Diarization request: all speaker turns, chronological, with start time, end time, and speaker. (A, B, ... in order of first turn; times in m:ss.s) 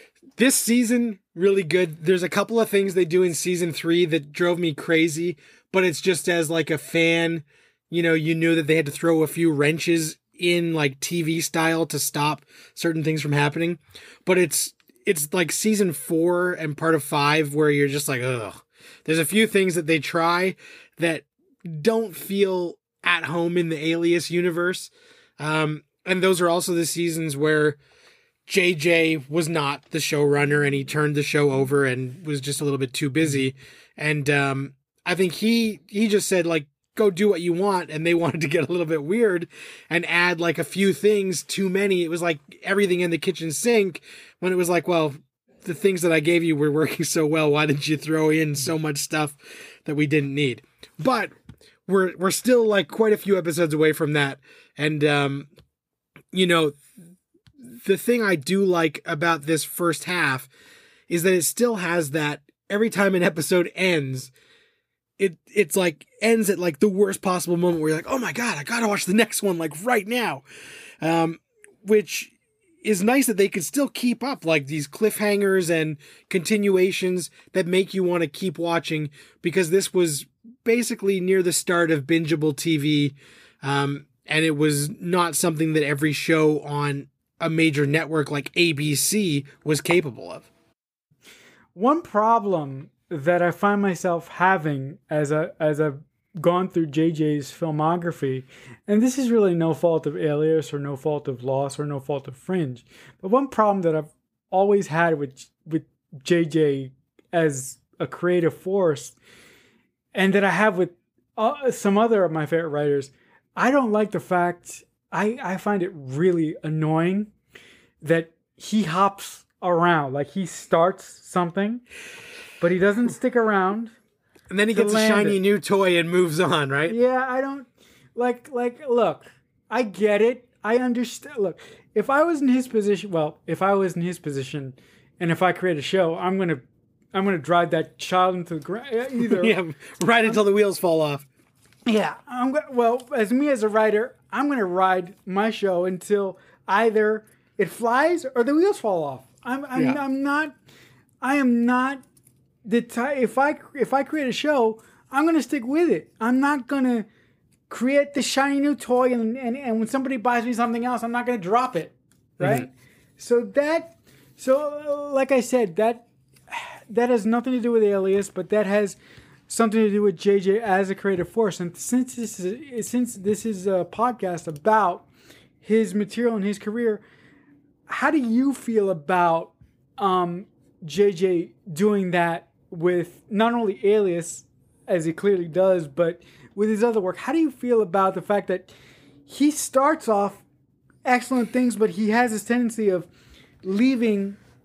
0:00.4-0:27.8 A
0:28.5-0:51.3 A
0:51.9-0:55.5 A
0:56.3-0:56.8 A
0:57.6-1:00.5 A
1:01.1-1:04.3 A
1:05.2-1:10.4 A
1:11.0-1:30.5 A
1:31.8-1:49.2 B
1:50.1-1:57.3 B
1:58.0-2:01.8 B
2:02.6-2:03.9 B
2:04.5-2:07.0 A
2:04.7-2:05.4 B
2:06.9-2:16.6 B
2:17.1-2:19.5 B
2:19.3-2:21.3 A
2:21.9-2:30.6 B
2:31.2-2:32.0 B
2:32.6-2:37.1 B
2:37.7-2:49.0 B
2:42.4-2:42.7 A
2:49.5-2:55.1 B
2:55.6-2:57.0 B
2:57.9-3:08.7 B
3:09.3-3:10.4 B
3:11.1-3:13.1 B
3:13.6-3:14.4 B